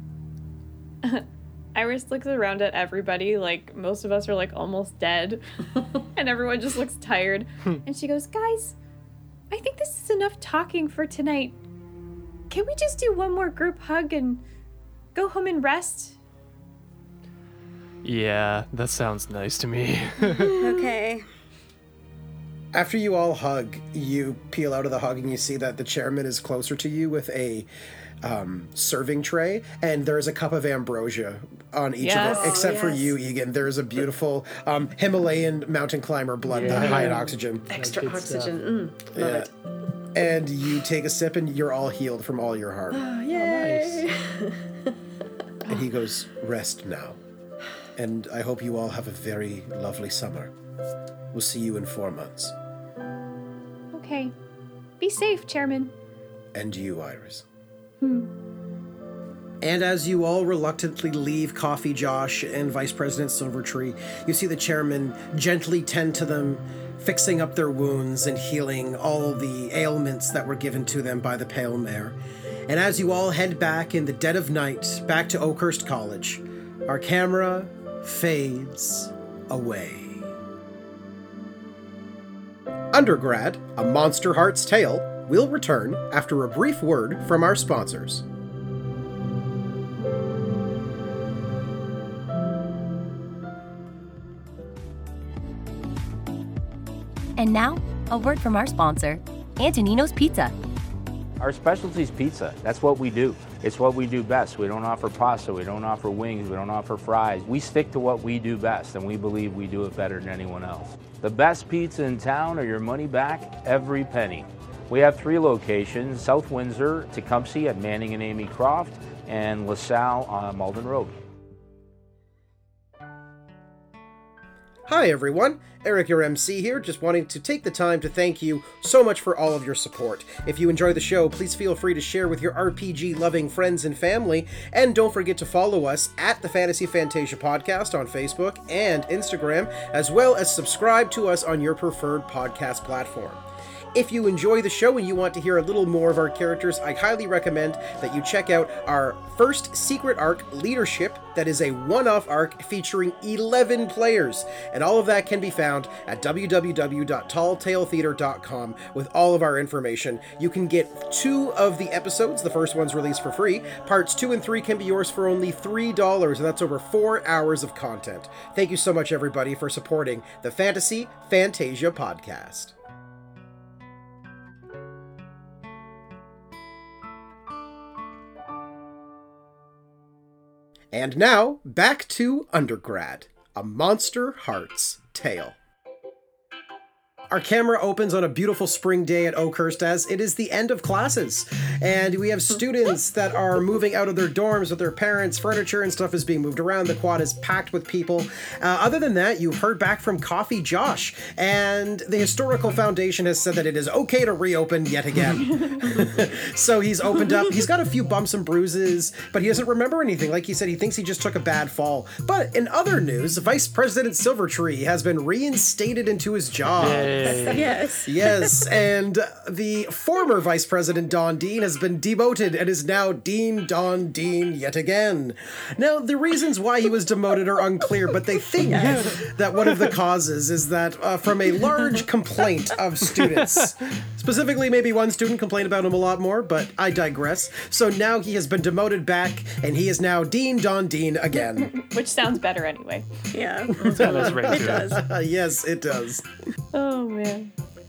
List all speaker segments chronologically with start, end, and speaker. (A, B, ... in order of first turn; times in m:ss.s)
0:01.0-0:05.4 A
0:06.2-0:08.8 A
0:09.5-0:11.6 A
0:12.5-0:14.4 A
0:15.2-0:16.2 A
0:18.0-0:20.6 B
0:20.6-0:21.2 C
0:22.7-0:27.7 D
0:28.2-0:37.7 D
0:32.0-0:32.5 A
0:32.2-0:33.1 E
0:36.5-0:38.7 B
0:36.6-0:39.5 E
0:39.2-0:39.5 D
0:40.1-0:43.0 D
0:42.9-0:44.9 E
0:43.3-0:44.1 B
0:45.7-0:47.2 D
0:48.0-0:50.5 D
0:51.3-0:52.6 D
0:53.9-0:54.4 A
0:55.0-0:55.9 A
0:56.6-0:57.5 D
0:58.0-0:58.3 A
0:59.6-1:20.3 D
1:22.9-1:28.2 D
1:37.4-1:40.5 F
1:41.4-2:01.2 G
2:04.9-2:23.4 D
2:23.9-2:52.7 D
3:00.9-3:05.6 D
3:07.3-4:01.7 D
3:36.8-3:37.7 B
3:37.3-3:38.2 E
3:37.5-3:38.1 C
3:48.8-3:49.0 C
3:48.8-3:49.1 B
4:01.6-4:03.0 A
4:03.3-4:05.0 C
4:03.8-4:06.3 D
4:03.8-4:05.0 B
4:06.7-4:07.5 A